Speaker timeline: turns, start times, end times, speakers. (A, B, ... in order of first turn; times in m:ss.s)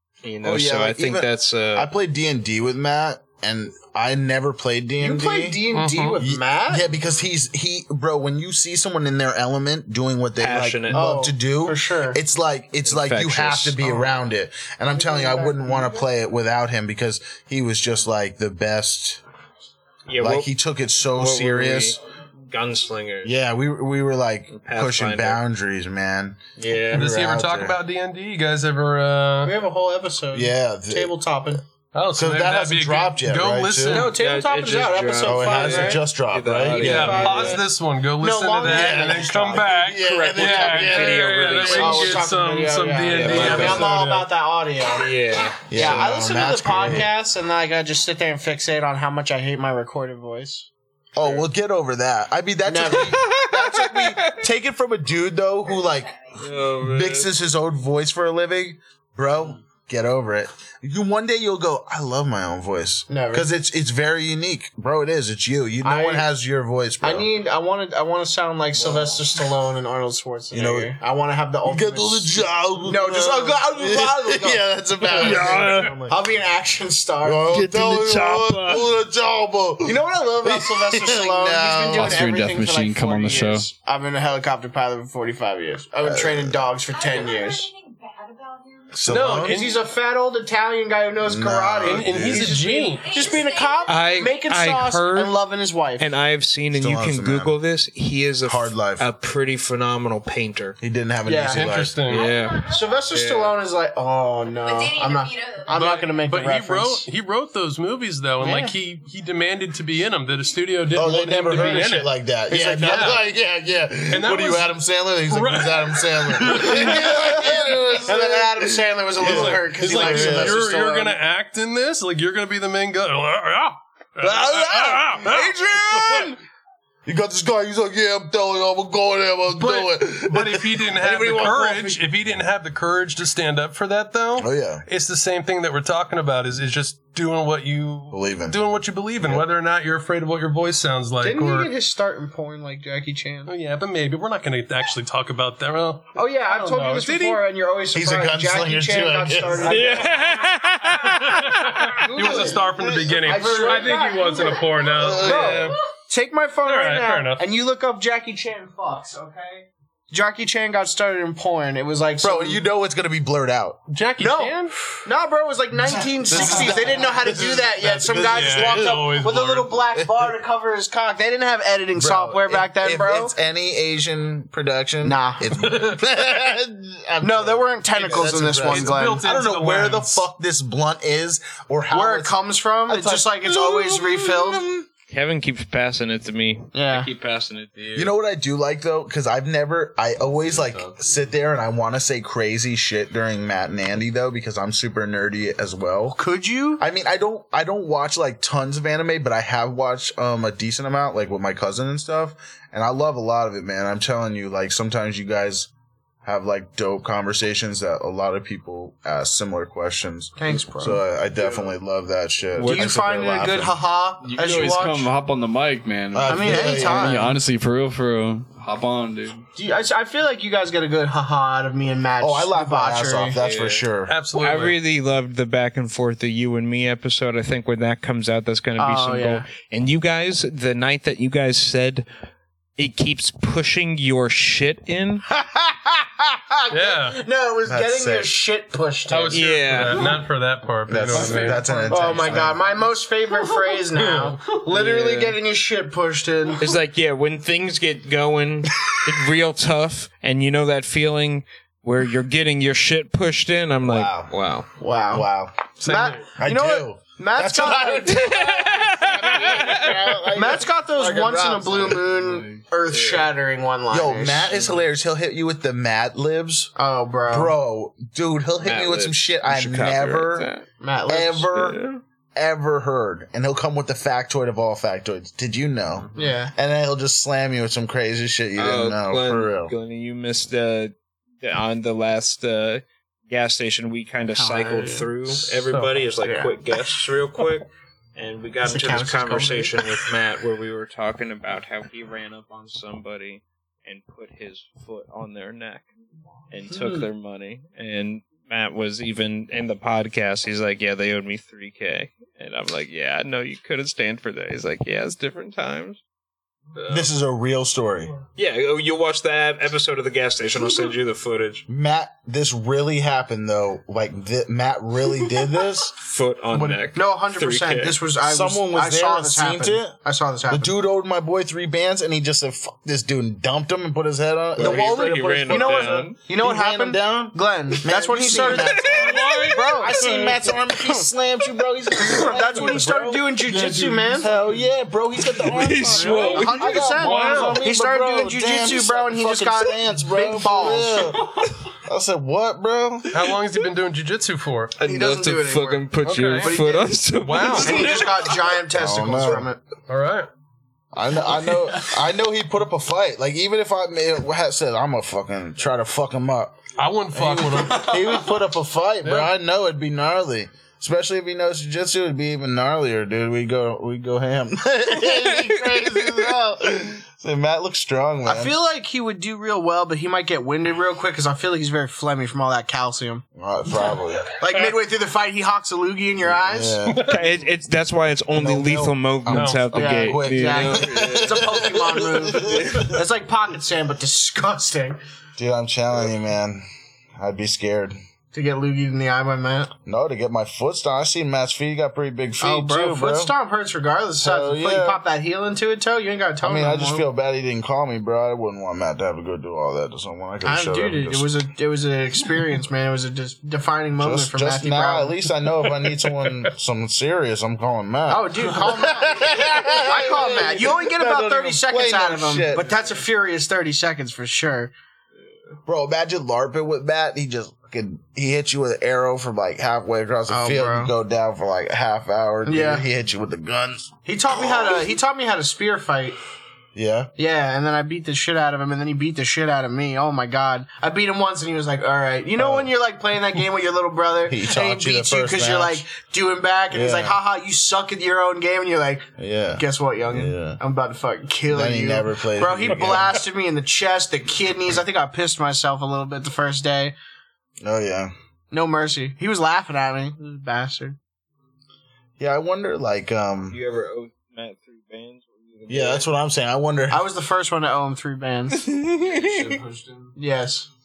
0:00.2-0:01.9 A
0:00.4-0:05.6 B
0:05.0-0:07.0 C
0:05.7-0:06.2 D
0:06.2-0:19.2 B
0:10.4-0:11.1 A
0:10.9-0:12.2 C
0:12.8-0:14.0 A
0:14.9-0:16.0 C
0:20.1-0:20.5 A
0:20.2-0:22.0 B
0:21.1-0:23.3 A
0:23.2-0:26.4 B
0:24.5-0:25.4 A
0:26.6-0:27.1 A
0:26.9-0:27.8 B
0:26.9-0:29.5 D
0:29.4-0:31.6 C
0:30.3-0:31.1 B
0:31.9-0:34.1 D
0:32.1-0:34.1 B
0:33.9-0:36.0 C
0:34.1-0:37.6 A
0:35.2-0:37.4 B
0:36.7-0:37.6 C
0:36.8-0:44.2 D
0:38.2-0:39.7 C
0:38.6-0:41.3 B
0:40.0-0:42.3 A
0:41.6-0:45.1 C
0:43.1-0:43.9 A
0:43.3-0:43.9 B
0:44.8-0:46.0 A
0:45.7-0:47.1 B
0:45.7-0:50.7 C
0:51.2-1:07.3 B
0:52.6-0:53.2 C
0:53.0-0:54.4 A
0:56.4-0:57.3 A
1:03.1-1:03.5 C
1:05.8-1:06.3 C
1:07.0-1:17.6 C
1:08.8-1:09.2 B
1:10.5-1:10.9 B
1:11.7-1:16.1 B
1:15.1-1:16.1 A
1:17.2-1:22.2 B
1:17.5-1:18.9 A
1:19.8-1:27.7 C
1:21.9-1:23.7 E
1:26.0-1:26.6 B
1:26.9-1:29.1 F
1:28.9-1:29.6 B
1:29.1-1:29.8 D
1:29.4-1:36.1 C
1:31.2-1:32.6 B
1:31.8-1:33.1 D
1:33.0-1:34.3 F
1:33.9-1:35.4 A
1:36.0-1:40.8 A
1:36.7-1:37.5 B
1:38.4-1:39.1 B
1:40.8-1:42.0 B
1:41.2-1:41.7 C
1:41.5-1:42.2 D
1:42.1-1:43.5 A
1:42.1-1:43.1 F
1:42.7-1:47.1 C
1:44.6-1:46.2 F
1:45.7-1:52.1 D
1:48.4-1:48.7 C
1:50.9-2:00.6 B
1:51.5-1:51.8 C
1:52.5-1:53.2 C
1:52.7-1:53.2 D
1:54.1-1:54.7 D
1:55.3-1:57.6 D
1:56.5-2:01.2 C
1:59.2-2:06.3 D
2:04.2-2:06.4 B
2:07.0-2:12.0 B
2:09.6-2:21.7 D
2:14.4-2:14.8 B
2:18.1-2:18.6 B
2:19.2-2:19.4 B
2:21.2-2:23.5 C
2:23.5-2:27.4 D
2:26.1-2:30.2 C
2:27.9-2:30.0 B
2:29.6-2:32.1 A
2:30.9-2:35.8 D
2:32.0-2:42.6 C
2:32.2-2:33.9 B
2:34.9-2:35.8 B
2:36.6-2:37.4 D
2:42.2-2:43.8 B
2:43.9-2:44.7 D
2:44.2-2:53.3 C
2:45.9-2:49.2 B
2:46.3-2:47.1 D
2:47.8-2:49.7 D
2:49.9-2:50.3 B
2:52.0-3:04.9 B
2:55.0-2:55.6 C
2:55.6-2:56.0 D
2:57.2-2:59.3 C
2:58.0-2:58.4 A
2:58.6-3:00.2 D
3:01.9-3:04.7 C
3:05.1-3:08.1 A
3:06.7-3:07.1 C
3:07.9-3:16.2 B
3:10.2-3:11.0 E
3:16.2-3:16.8 C
3:16.8-3:25.7 B
3:26.2-3:33.8 B
3:30.4-3:31.0 C
3:31.4-3:31.7 E
3:32.5-3:32.9 A
3:32.6-3:35.1 C
3:34.2-3:39.4 E
3:36.1-3:37.3 B
3:36.3-3:37.3 C
3:39.6-3:43.4 C
3:42.2-3:44.1 B
3:43.4-3:52.1 A
3:44.1-3:44.8 D
3:48.8-3:49.4 C
3:52.8-3:55.2 A
3:56.6-3:59.4 C
3:56.7-3:57.2 D
3:57.6-3:58.3 B
3:59.1-4:01.9 D
3:59.3-4:00.1 A
4:00.9-4:02.6 B
4:01.1-4:01.5 A
4:01.2-4:06.7 C
4:03.9-4:04.4 D
4:04.7-4:05.4 A
4:06.6-4:14.7 A
4:13.8-4:14.3 B
4:14.8-4:15.3 C
4:15.1-4:15.7 B
4:15.8-4:18.4 C
4:15.8-4:16.2 D
4:16.3-4:22.0 B
4:18.1-4:20.2 A
4:20.3-4:24.5 C
4:21.9-4:22.6 E
4:22.9-4:23.3 A
4:23.9-4:26.7 B
4:26.8-4:27.5 C
4:27.3-4:30.5 B
4:28.6-4:30.6 A
4:30.8-4:31.5 C
4:31.1-4:31.8 B
4:31.5-4:32.0 A
4:32.4-4:39.7 B
4:36.1-4:36.5 C
4:38.6-4:55.9 A
4:44.3-4:45.6 C
4:46.2-4:46.5 C
4:48.6-4:49.9 C
4:56.5-5:06.0 A
4:56.7-4:57.0 C
5:06.7-5:07.1 A
5:06.9-5:08.1 B
5:08.3-5:11.6 A
5:11.7-5:15.9 B
5:15.9-5:18.0 A
5:16.6-5:20.7 C
5:18.2-5:20.0 B
5:20.5-5:43.4 B
5:24.6-5:26.2 A
5:25.5-5:30.0 C
5:28.4-5:30.5 A
5:30.8-5:31.1 C
5:32.0-5:34.3 C
5:35.4-5:36.8 A
5:35.5-5:41.2 C
5:37.0-5:37.6 D
5:43.1-5:44.7 D
5:44.8-5:48.4 A
5:44.8-5:49.6 C
5:46.0-5:46.5 D
5:47.2-5:48.0 D
5:48.7-5:49.5 B
5:49.9-5:50.3 D
5:50.9-6:08.5 B
5:56.8-5:58.2 D
5:59.0-5:59.3 D
6:05.1-6:06.3 A
6:08.2-6:13.2 C
6:13.4-6:14.3 B
6:14.4-6:16.8 C
6:16.4-6:17.1 B
6:16.9-6:17.4 D
6:17.0-6:21.6 A
6:18.3-6:23.0 B
6:19.3-6:19.6 D
6:19.7-6:25.0 C
6:22.3-6:22.9 A
6:25.4-6:26.6 B
6:27.2-6:28.0 B
6:28.3-6:29.7 C
6:29.8-6:33.3 B
6:32.4-6:37.1 C
6:34.2-6:35.0 B
6:36.4-6:41.3 B
6:40.4-6:45.2 C
6:44.0-6:52.8 B
6:48.1-6:54.7 C
6:55.6-7:03.9 B
7:00.3-7:00.9 C
7:02.4-7:02.8 C
7:04.0-7:06.2 C
7:06.7-7:07.1 B
7:07.2-7:27.0 C
7:12.4-7:12.7 B
7:14.3-7:15.8 B
7:16.7-7:17.2 B
7:19.2-7:20.6 B
7:21.5-7:23.2 B
7:27.6-7:28.1 B
7:28.5-7:31.0 C
7:32.2-7:33.6 B
7:33.5-7:36.1 A
7:35.7-7:37.0 B
7:36.9-7:38.9 C
7:38.9-7:40.1 E
7:38.9-7:39.6 A
7:40.2-7:40.7 C